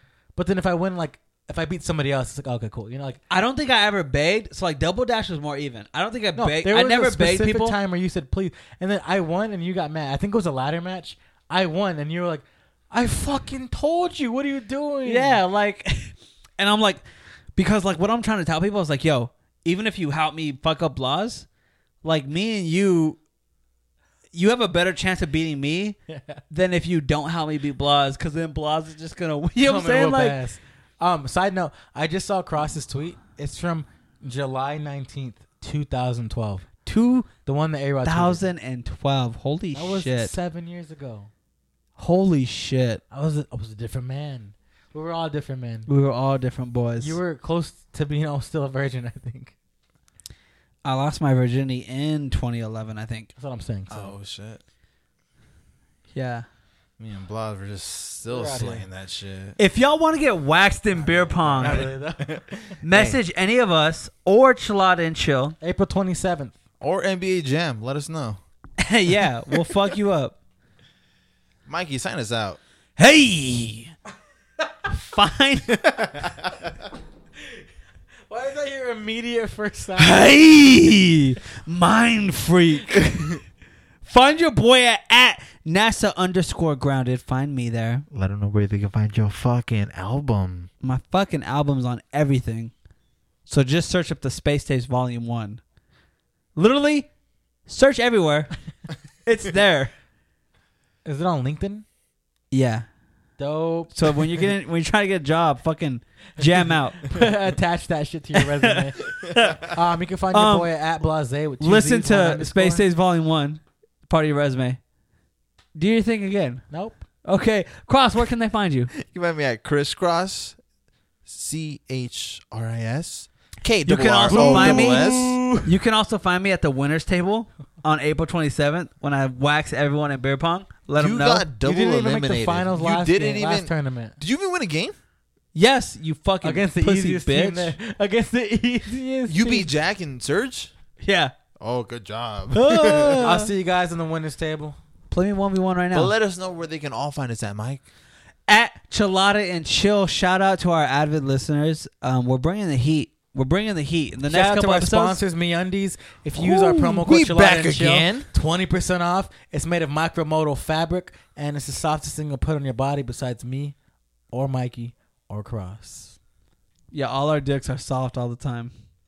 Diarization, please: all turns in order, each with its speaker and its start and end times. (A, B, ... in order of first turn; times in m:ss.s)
0:00.4-0:03.2 A
0:03.3-0:07.8 B
0:06.4-0:15.4 A
0:15.0-0:17.0 B
0:17.6-0:21.4 B
0:22.0-0:23.2 B
0:24.3-0:26.0 B
0:26.1-0:26.4 A
0:26.5-0:30.4 B
0:29.6-0:38.4 A
0:36.9-0:37.3 B
0:38.0-0:40.3 B
0:39.7-0:41.3 A
0:42.0-0:43.0 B
0:43.1-0:45.9 A
0:45.9-0:47.2 B
0:47.0-0:49.5 A
0:50.8-0:53.3 B
0:53.4-0:54.1 A
0:53.9-0:54.6 C
0:56.1-0:56.4 B
0:57.0-0:59.6 C
0:58.3-0:58.8 A
0:59.6-1:01.9 B
1:01.0-1:03.1 A
1:01.6-1:03.1 C
1:02.8-1:05.6 B
1:05.6-1:06.6 A
1:06.8-1:08.4 C
1:08.8-1:10.4 B
1:11.6-1:12.6 C
1:13.0-1:13.9 B
1:14.9-1:16.0 B
1:16.0-1:16.6 C
1:18.3-1:20.3 A
1:20.0-1:23.4 B
1:24.0-1:28.0 B
1:28.1-1:30.7 C
1:30.8-1:32.7 B
1:33.5-1:35.6 B
1:36.6-1:37.1 B
1:37.7-1:38.5 B
1:39.2-1:39.9 B
1:41.0-1:41.8 A
1:42.5-1:42.8 B
1:43.4-1:44.5 A
1:43.9-1:47.1 B
1:46.4-1:52.8 A
1:48.4-1:49.8 B
1:50.3-1:50.7 B
1:51.6-1:54.8 B
1:55.7-1:56.6 B
1:56.7-1:57.0 A
1:57.2-1:58.9 B
1:59.0-2:00.6 C
2:01.2-2:05.4 C
2:03.8-2:11.5 B
2:04.3-2:05.7 A
2:11.0-2:15.0 C
2:11.6-2:14.2 A
2:15.5-2:17.7 B
2:16.4-2:19.7 A
2:19.2-2:20.7 C
2:21.0-2:21.3 B
2:21.6-2:23.3 C
2:22.5-2:23.5 B
2:23.2-2:24.8 A
2:25.1-2:26.1 B
2:25.9-2:27.8 C
2:28.5-2:35.2 B
2:34.2-2:43.8 A
2:36.4-2:38.3 C
2:44.3-2:46.2 A
2:46.9-2:48.7 B